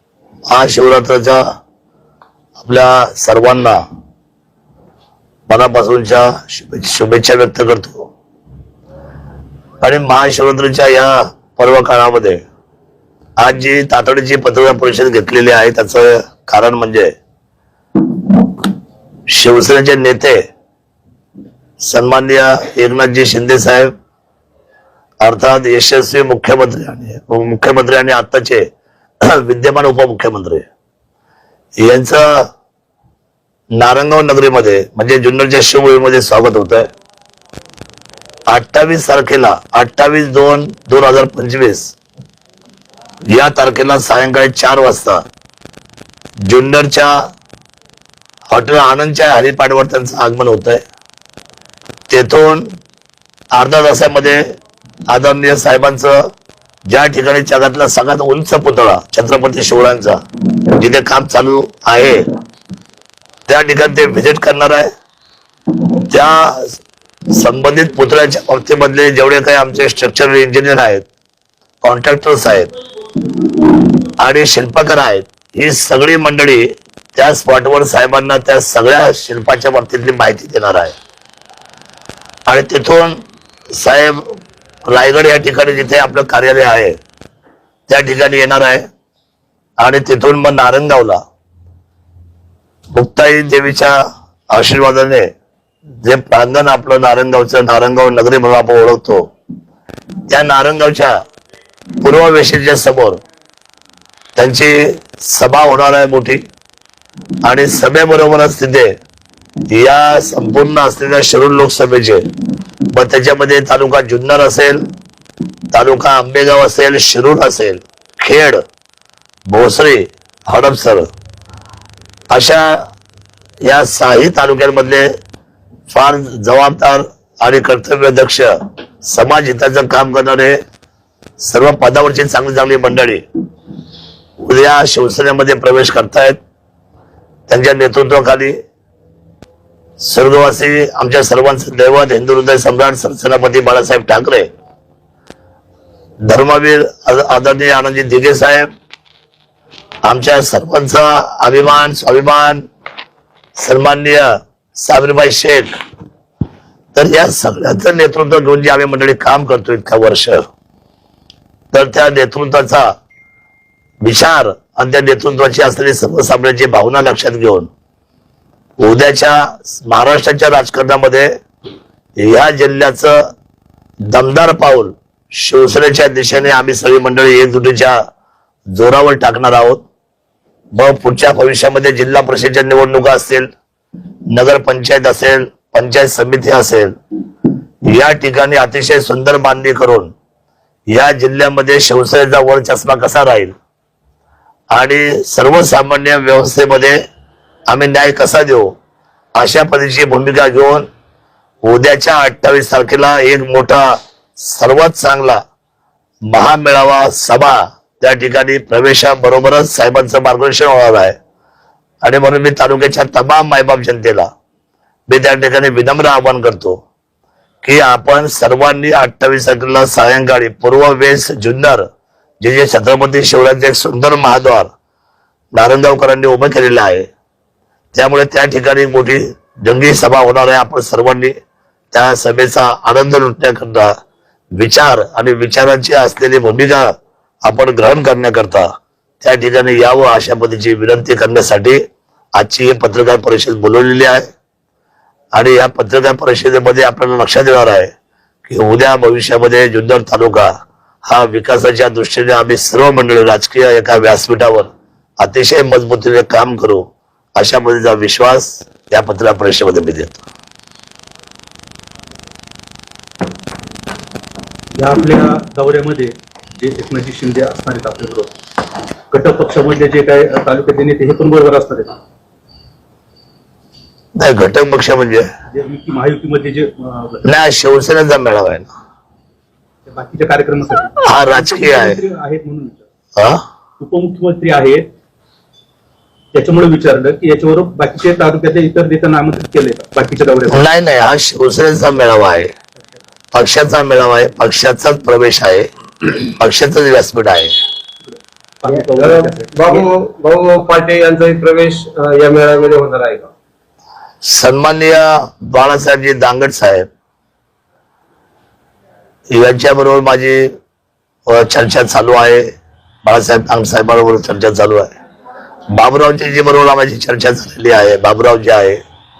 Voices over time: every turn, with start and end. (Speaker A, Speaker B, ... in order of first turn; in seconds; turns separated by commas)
Speaker A: 0.5-1.4, Speaker A: 2.6-3.8, Speaker A: 5.5-8.1, Speaker A: 9.8-12.4, Speaker A: 13.4-17.1, Speaker A: 19.3-20.4, Speaker A: 21.9-23.9, Speaker A: 25.2-28.7, Speaker A: 29.2-30.6, Speaker A: 31.8-32.5, Speaker A: 33.8-36.9, Speaker A: 38.5-41.9, Speaker A: 43.3-45.2, Speaker A: 46.5-47.1, Speaker A: 48.5-50.8, Speaker A: 52.1-52.7, Speaker A: 53.5-54.4, Speaker A: 55.1-56.2, Speaker A: 56.9-60.2, Speaker A: 60.7-62.2, Speaker A: 63.5-64.8, Speaker A: 66.0-66.8, Speaker A: 67.3-71.0, Speaker A: 71.8-72.7, Speaker A: 74.2-80.9, Speaker A: 82.5-83.2, Speaker A: 83.8-84.2, Speaker A: 84.9-87.0, Speaker A: 87.9-88.8, Speaker A: 89.8-91.2, Speaker A: 92.9-93.9, Speaker A: 94.5-95.3, Speaker A: 96.0-99.2, Speaker A: 100.3-101.1, Speaker A: 102.0-103.2, Speaker A: 104.3-106.4, Speaker A: 107.4-108.9, Speaker A: 109.7-112.2, Speaker A: 112.9-114.8, Speaker A: 115.7-118.6, Speaker A: 119.5-121.1, Speaker A: 122.3-122.8, Speaker A: 123.7-125.1, Speaker A: 125.9-128.5, Speaker A: 129.0-130.6, Speaker A: 131.4-133.2, Speaker A: 134.4-136.4, Speaker A: 137.5-138.6, Speaker A: 140.0-144.5, Speaker A: 146.2-148.7, Speaker A: 150.1-152.6, Speaker A: 153.6-155.7, Speaker A: 156.9-160.4, Speaker A: 161.7-162.9, Speaker A: 164.0-167.7, Speaker A: 168.8-171.3, Speaker A: 172.2-173.2, Speaker A: 174.1-178.0, Speaker A: 178.8-179.8, Speaker A: 180.7-183.5, Speaker A: 184.3-186.9, Speaker A: 187.9-190.1, Speaker A: 190.9-193.5, Speaker A: 194.7-197.0, Speaker A: 197.7-198.7, Speaker A: 199.3-200.8, Speaker A: 201.7-203.9, Speaker A: 204.4-205.4, Speaker A: 206.3-211.1, Speaker A: 212.0-214.3, Speaker A: 215.1-216.8, Speaker A: 217.6-221.8, Speaker A: 222.4-224.7, Speaker A: 225.5-227.1, Speaker A: 227.9-231.3, Speaker A: 231.9-233.9, Speaker A: 234.6-236.9, Speaker A: 237.4-238.7, Speaker A: 239.2-241.8, Speaker A: 242.4-244.2, Speaker A: 245.3-247.9, Speaker A: 248.4-250.5, Speaker A: 251.1-256.8, Speaker A: 257.4-260.2, Speaker B: 264.8-268.3, Speaker B: 269.1-271.9, Speaker A: 274.2-275.3, Speaker B: 275.5-277.2, Speaker A: 277.2-278.7, Speaker B: 279.9-282.9, Speaker A: 281.0-282.0, Speaker A: 283.2-283.4, Speaker B: 283.8-284.9, Speaker B: 286.3-290.6, Speaker A: 290.5-292.5, Speaker A: 293.3-297.5, Speaker B: 298.1-299.9, Speaker C: 298.7-303.3, Speaker A: 304.2-306.9, Speaker A: 309.3-310.5, Speaker A: 311.3-312.4, Speaker A: 313.0-314.9, Speaker A: 315.7-318.8